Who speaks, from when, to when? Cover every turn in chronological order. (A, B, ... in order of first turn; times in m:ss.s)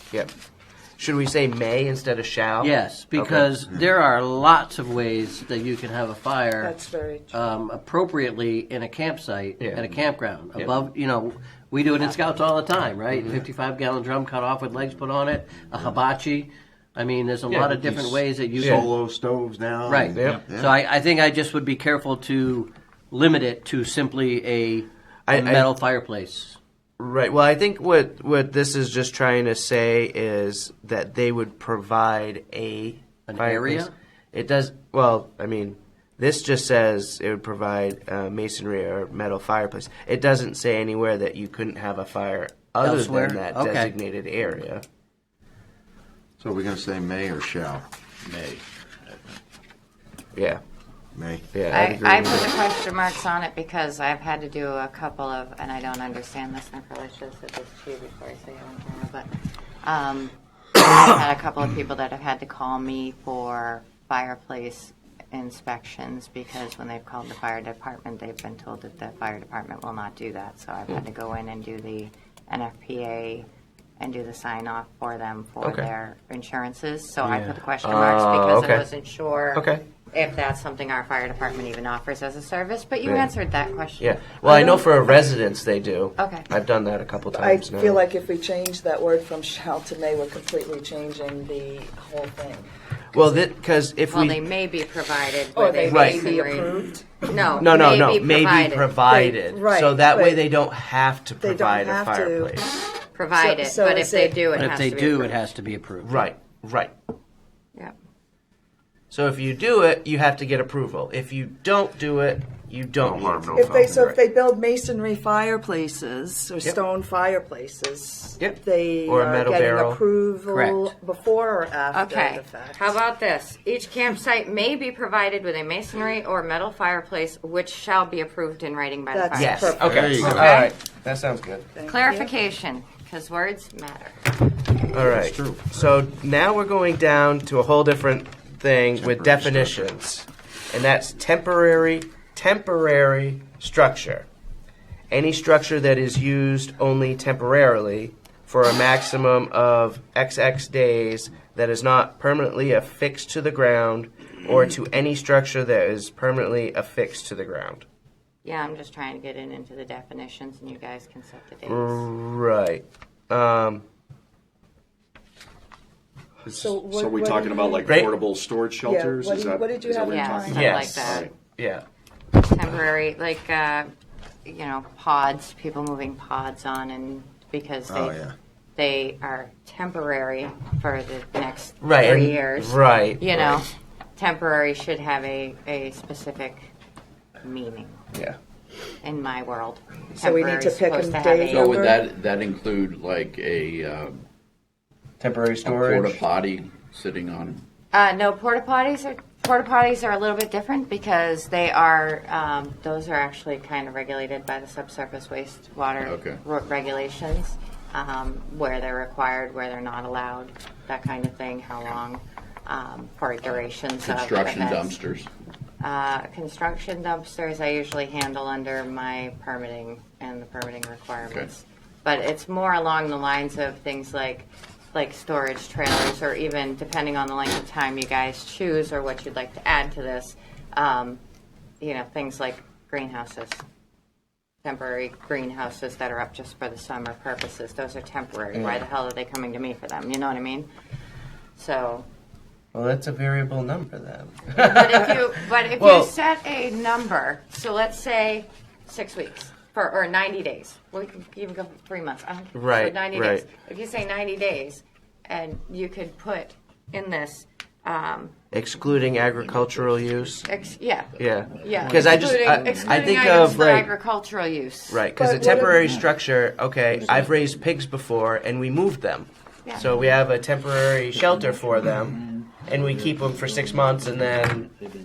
0:01.0-0:03.5 A
0:02.6-0:06.7 B
0:06.6-0:07.4 C
0:07.3-0:18.9 B
0:09.6-0:09.9 A
0:10.6-0:10.8 A
0:13.1-0:13.4 A
0:17.5-0:17.8 A
0:17.8-0:20.7 D
0:18.6-0:18.8 A
0:19.8-0:26.6 B
0:20.1-0:20.4 A
0:25.3-0:25.7 A
0:27.0-0:44.8 A
0:33.3-0:33.9 B
0:42.8-0:43.9 B
0:46.4-0:47.8 D
0:48.2-0:49.3 E
0:50.4-0:50.6 A
0:51.1-0:51.5 D
0:51.5-0:52.5 A
0:51.7-0:59.3 F
0:59.8-1:13.5 F
1:14.0-1:24.2 F
1:15.6-1:15.9 A
1:17.2-1:17.6 B
1:17.8-1:18.9 A
1:19.5-1:19.8 A
1:23.0-1:23.3 A
1:24.0-1:28.0 A
1:24.4-1:24.9 C
1:26.2-1:26.5 F
1:27.3-1:32.7 C
1:33.1-1:34.4 A
1:34.1-1:38.9 F
1:35.5-1:37.7 C
1:35.9-1:36.3 A
1:37.6-1:42.7 A
1:39.1-1:40.4 C
1:41.4-1:42.6 C
1:43.1-1:45.4 F
1:43.4-1:44.4 C
1:44.5-1:46.2 B
1:46.0-1:46.9 A
1:49.1-1:54.2 A
1:53.0-1:54.0 D
1:53.5-2:02.9 C
1:58.4-2:00.0 A
2:00.5-2:00.9 B
2:01.9-2:10.7 F
2:09.1-2:10.0 C
2:09.3-2:11.7 A
2:09.8-2:10.5 D
2:11.7-2:12.3 C
2:11.8-2:14.2 F
2:14.9-2:24.2 A
2:15.0-2:15.6 D
2:19.0-2:19.9 D
2:25.1-2:37.8 A
2:38.4-2:42.1 F
2:41.7-2:43.8 A
2:46.4-2:50.5 G
2:46.5-2:48.1 C
2:47.8-2:48.2 A
2:48.8-2:51.2 C
2:50.0-2:51.3 F
2:50.5-2:51.8 A
2:52.4-2:53.9 F
2:54.4-3:06.7 F
2:57.9-2:58.3 D
3:01.8-3:03.6 A
3:07.4-3:08.0 F
3:09.0-3:11.8 F
3:10.2-3:12.0 C
3:11.5-3:14.2 E
3:15.2-3:16.2 A
3:15.6-3:17.6 E
3:17.9-3:35.0 F
3:26.0-3:26.4 E
3:34.0-3:35.3 E
3:35.8-3:51.2 F
3:51.8-3:53.6 F
3:54.6-4:00.7 F
3:58.5-3:58.8 A
4:01.5-4:02.1 F
4:02.7-4:06.1 A
4:04.5-4:18.3 F
4:12.5-4:13.5 A
4:18.5-4:20.5 A
4:19.5-4:20.3 E
4:20.4-4:25.0 F
4:21.2-4:23.9 A
4:24.9-4:34.7 A
4:25.1-4:25.8 C